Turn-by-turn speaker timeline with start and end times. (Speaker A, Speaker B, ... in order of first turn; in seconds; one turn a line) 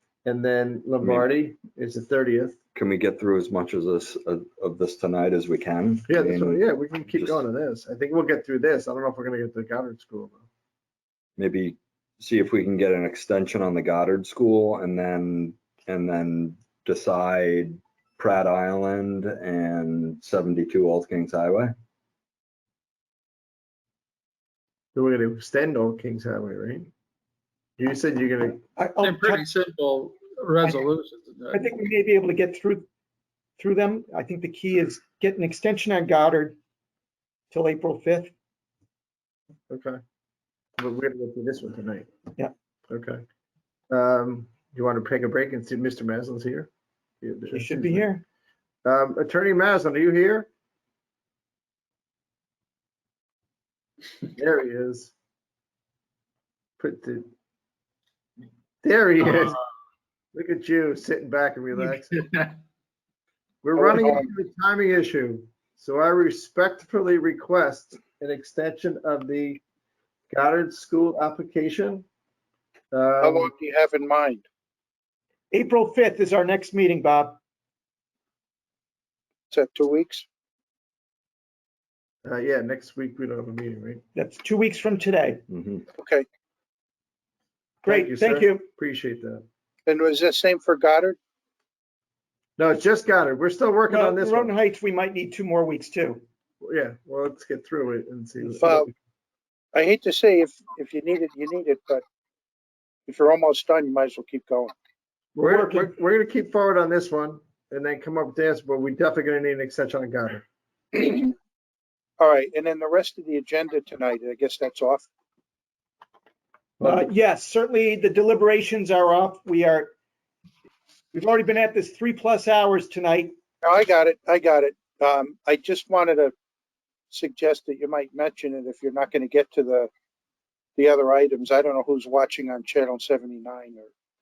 Speaker A: 0.2-2.6
Speaker B: 1.0-1.3
Speaker B: 2.8-6.6
Speaker A: 6.1-10.4
Speaker B: 11.4-21.8
Speaker A: 24.9-26.9
Speaker A: 27.8-28.6
Speaker C: 28.8-29.5
Speaker D: 29.0-31.7
Speaker C: 31.5-32.9
Speaker C: 33.6-36.6
Speaker C: 37.5-38.3
Speaker A: 39.7-40.0
Speaker A: 40.8-42.1
Speaker A: 42.9-43.2
Speaker A: 43.9-46.7
Speaker A: 47.2-48.0
Speaker C: 47.5-48.2
Speaker A: 48.8-50.5
Speaker A: 54.4-55.1
Speaker A: 56.8-57.3
Speaker A: 58.8-59.6
Speaker A: 60.3-62.1
Speaker D: 61.9-62.5
Speaker A: 63.6-69.6
Speaker E: 63.8-64.2
Speaker A: 70.3-72.1
Speaker A: 72.9-73.5
Speaker E: 73.2-74.4
Speaker C: 75.5-77.4
Speaker E: 79.5-80.2
Speaker A: 82.2-84.0
Speaker C: 84.2-85.4
Speaker B: 85.5-85.8
Speaker E: 86.0-86.3
Speaker C: 87.8-88.7
Speaker A: 87.9-89.4
Speaker E: 89.9-91.2
Speaker A: 92.6-94.5
Speaker C: 93.9-96.2
Speaker A: 96.6-98.9
Speaker E: 98.6-98.9
Speaker E: 99.8-102.0
Speaker E: 103.1-104.7
Speaker A: 105.4-110.4
Speaker C: 105.5-105.9
Speaker E: 110.9-111.3
Speaker E: 112.2-115.0
Speaker A: 116.8-117.1
Speaker C: 116.8-119.9
Speaker C: 121.1-123.3
Speaker E: 123.6-126.3
Speaker E: 127.1-129.9
Speaker E: 130.8-133.9